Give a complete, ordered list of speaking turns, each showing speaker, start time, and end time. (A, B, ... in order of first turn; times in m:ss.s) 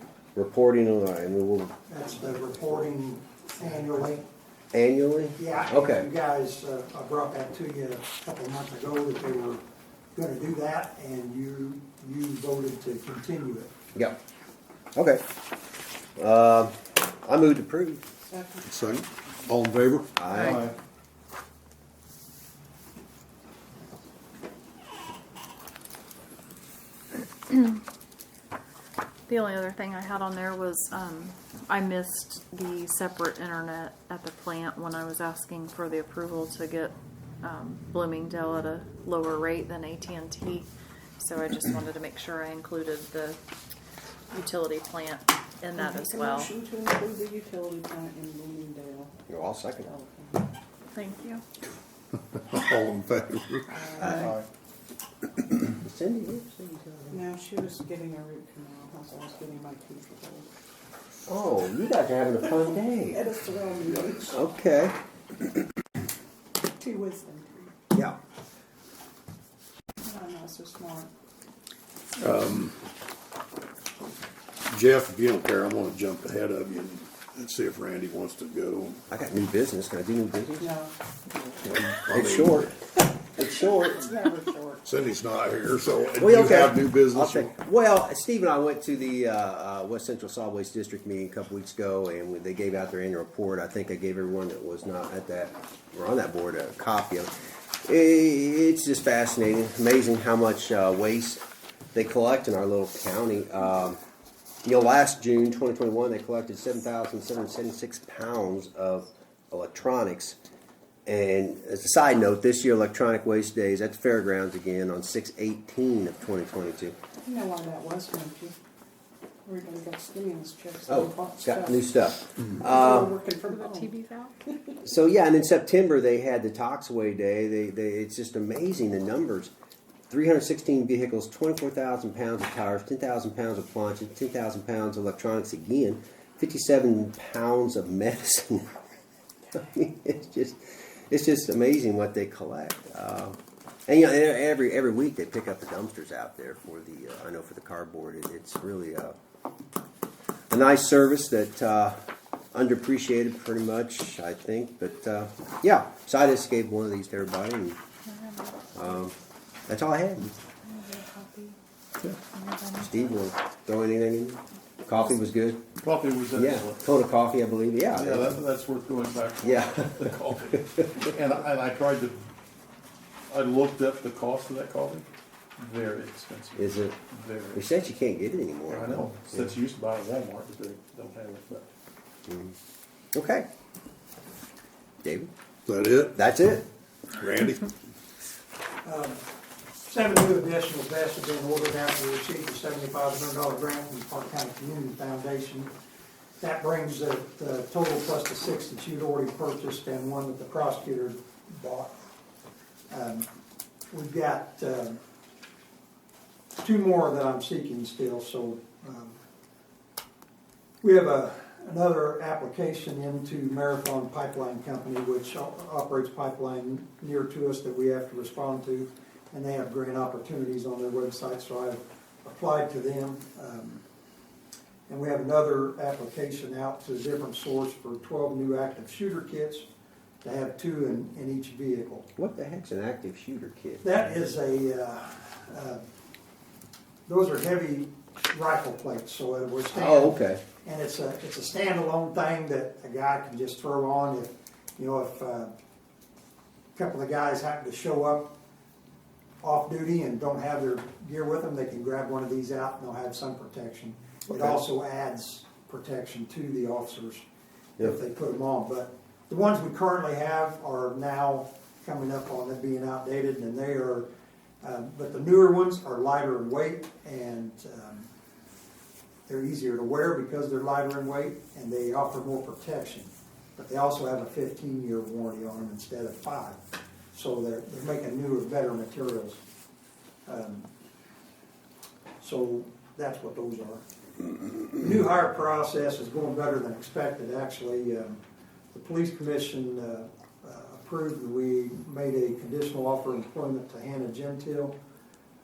0:00.4-0:01.7 A
0:01.9-0:04.2 B
0:04.7-0:06.1 A
0:05.4-0:09.6 B
0:10.2-0:13.7 B
0:15.0-0:15.2 A
0:16.2-0:18.0 A
0:18.3-0:18.7 C
0:18.6-0:20.1 D
0:20.2-0:20.7 A
0:27.5-0:27.8 E
0:29.3-0:40.7 E
0:41.2-0:43.4 E
0:44.3-0:46.5 E
0:45.8-0:49.2 C
0:49.3-0:49.9 A
0:49.8-0:50.5 C
0:50.9-0:51.4 E
0:52.3-0:53.9 D
0:53.7-0:54.4 C
0:55.7-0:57.2 A
0:57.1-1:00.5 C
1:01.3-1:03.2 A
1:03.1-1:04.4 C
1:04.3-1:05.0 A
1:06.8-1:07.7 C
1:10.0-1:11.1 C
1:12.2-1:12.9 D
1:14.7-1:19.0 D
1:19.1-1:20.7 A
1:20.6-1:20.9 C
1:21.7-1:24.1 A
1:21.7-1:22.7 D
1:23.4-1:24.9 C
1:24.8-1:27.5 D
1:26.2-1:37.3 A
1:37.8-1:41.4 A
1:41.9-1:44.0 A
1:44.6-1:50.4 A
1:51.1-1:57.0 A
1:57.2-1:58.6 C
1:59.4-2:02.0 C
2:00.9-2:03.1 A
2:02.5-2:03.9 C
2:03.5-2:04.3 E
2:04.8-2:09.5 A
2:10.1-2:18.8 A
2:19.5-2:29.2 A
2:30.5-2:32.0 A
2:32.5-2:37.8 A
2:38.1-2:38.6 E
2:38.8-2:39.1 A
2:39.7-2:40.4 A
2:40.6-2:41.6 E
2:42.3-2:43.1 E
2:42.8-2:45.6 A
2:45.8-2:46.9 F
2:46.3-2:48.4 A
2:47.9-2:52.2 F
2:49.4-2:50.1 A
2:53.3-2:55.1 F
2:55.6-2:57.6 F
2:56.6-2:57.0 A
2:57.5-2:59.5 A
2:58.7-3:01.7 F
3:02.3-3:02.5 A
3:03.1-3:03.5 A
3:05.0-3:05.3 A
3:05.7-3:06.2 D
3:06.2-3:06.7 A
3:07.2-3:07.7 D
3:08.8-3:09.2 B
3:09.9-3:15.7 B
3:16.4-3:22.0 B
3:22.9-3:23.3 B
3:23.9-3:25.0 B
3:26.6-3:29.2 B
3:30.8-3:43.8 B
3:44.9-3:49.7 B
3:50.2-3:52.1 B
3:52.2-3:53.8 A
3:53.8-3:55.8 B
3:57.1-4:05.5 B
3:59.7-4:00.4 A
4:06.8-4:08.3 B
4:09.4-4:17.2 B
4:17.8-4:24.1 B
4:24.6-4:28.1 B
4:29.3-4:36.6 B
4:37.1-4:39.4 B
4:40.3-4:40.7 B
4:42.2-4:43.8 B
4:44.8-4:48.2 B
4:48.7-4:54.8 B